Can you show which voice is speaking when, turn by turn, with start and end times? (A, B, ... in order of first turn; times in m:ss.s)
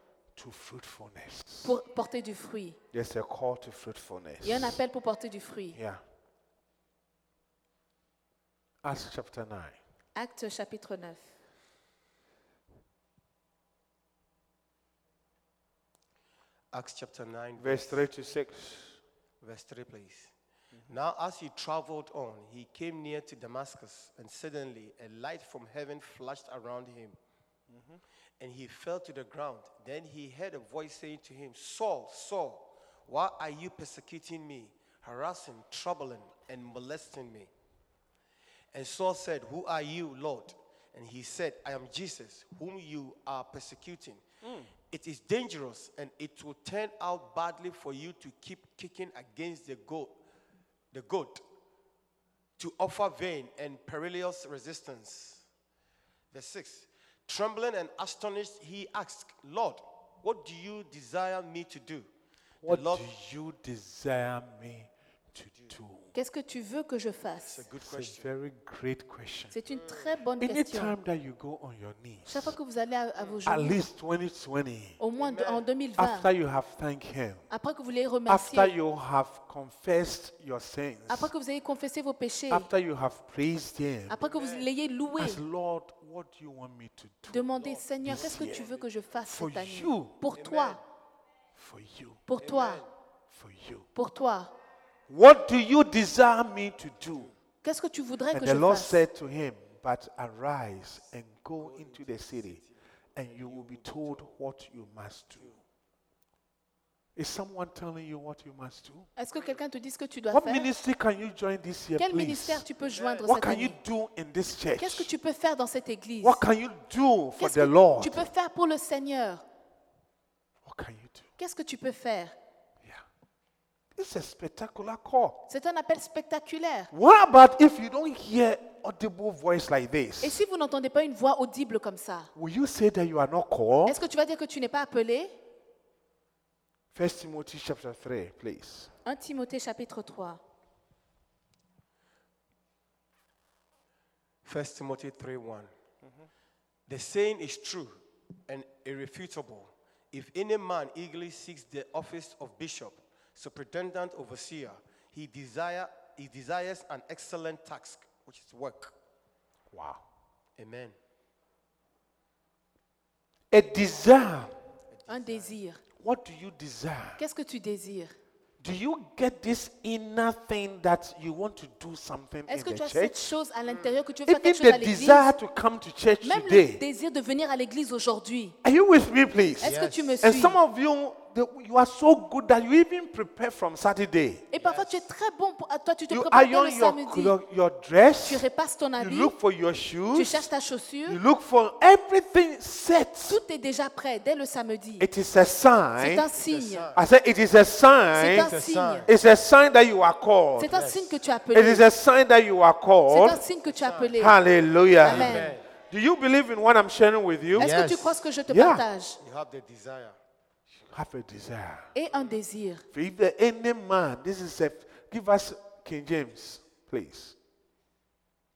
0:00.4-0:01.8 A
0:01.6-0:02.8 B
0:02.9-0:04.8 A
0:04.4-0:05.8 B
0:05.7-0:06.0 A
0:08.8-0:09.8 A
0:10.1-0:11.2 B
0:16.7-0:18.0 C
0:17.6-0:19.0 A
0:19.4-0:20.3 C
0:20.9-0:27.2 C
0:27.7-0:28.0 A
0:28.4-0:37.5 C
0:38.7-0:44.2 C
0:44.4-0:44.7 A
0:44.9-0:50.1 C
0:50.9-0:51.4 C
0:52.6-0:55.4 C
0:56.3-1:02.1 C
1:02.6-1:03.1 C
1:02.6-1:06.1 A
1:06.1-1:07.6 B
1:07.4-1:08.3 C
1:07.8-1:09.5 A
1:09.5-1:10.9 B
1:09.7-1:10.1 C
1:10.4-1:12.5 A
1:12.3-1:13.8 B
1:13.2-1:13.4 C
1:13.4-1:15.0 A
1:15.0-1:16.3 B
1:15.2-1:15.6 C
1:16.0-1:17.4 A
1:17.5-1:18.7 B
1:18.3-1:21.3 A
1:21.1-1:22.7 B
1:22.5-1:24.2 A
1:24.1-1:25.4 B
1:24.3-1:24.7 C
1:25.2-1:27.5 A
1:27.3-1:30.8 B
1:27.5-1:28.9 C
1:28.0-1:28.6 A
1:29.3-1:30.1 A
1:30.4-1:30.8 C
1:31.6-1:32.2 A
1:32.3-1:32.8 B
1:32.4-1:32.9 C
1:33.3-1:33.8 A
1:33.9-1:34.5 B
1:35.1-1:37.3 A
1:37.6-1:39.0 B
1:38.3-1:42.6 A
1:41.6-1:44.2 C
1:43.2-1:45.5 A
1:47.2-1:49.1 A
1:49.2-1:50.7 B
1:49.3-1:49.6 C
1:50.3-1:52.6 A
1:52.0-1:53.8 B
1:52.8-1:53.3 C
1:53.2-1:55.1 A
1:54.8-1:56.4 B
1:56.2-1:58.2 A
1:57.4-1:59.4 B
2:00.6-2:01.3 A
2:01.4-2:02.3 B
2:04.0-2:05.4 A
2:05.5-2:06.9 B
2:06.9-2:10.4 A
2:10.2-2:12.3 B
2:12.4-2:14.0 A
2:13.8-2:15.3 B
2:16.9-2:18.9 A
2:19.0-2:20.4 B
2:24.4-2:25.7 C
2:26.9-2:27.9 C
2:28.5-2:38.9 C
2:39.7-2:40.0 A
2:40.6-2:40.9 C
2:43.5-2:44.5 A
2:44.9-2:45.6 C
2:45.1-2:45.8 B
2:46.0-2:47.2 A
2:47.2-2:48.1 B
2:48.6-2:53.3 A
2:52.5-2:55.3 B
2:53.7-2:53.9 C
2:54.2-2:56.8 A
2:56.2-2:58.6 B
2:58.6-3:04.4 A
2:59.6-3:00.6 B
2:59.6-3:00.2 C
3:04.5-3:07.4 B
3:04.5-3:05.0 C
3:06.1-3:08.4 A
3:08.2-3:09.3 B
3:09.0-3:10.5 A
3:10.1-3:11.2 B
3:11.1-3:13.4 A
3:13.2-3:15.1 B
3:15.0-3:16.3 A
3:16.0-3:16.9 B
3:16.4-3:17.0 C
3:16.9-3:18.5 A
3:18.1-3:19.1 B
3:18.3-3:19.1 C
3:19.0-3:20.7 A
3:20.6-3:21.8 B
3:20.7-3:21.2 C
3:21.5-3:23.4 A
3:23.1-3:24.3 B
3:23.6-3:24.2 C
3:24.2-3:27.7 A
3:25.0-3:25.6 C
3:25.0-3:25.5 B
3:27.6-3:28.2 C
3:27.6-3:29.2 B
3:28.5-3:28.8 A
3:29.2-3:30.2 C
3:30.9-3:31.9 A
3:31.9-3:32.8 B
3:32.9-3:37.4 A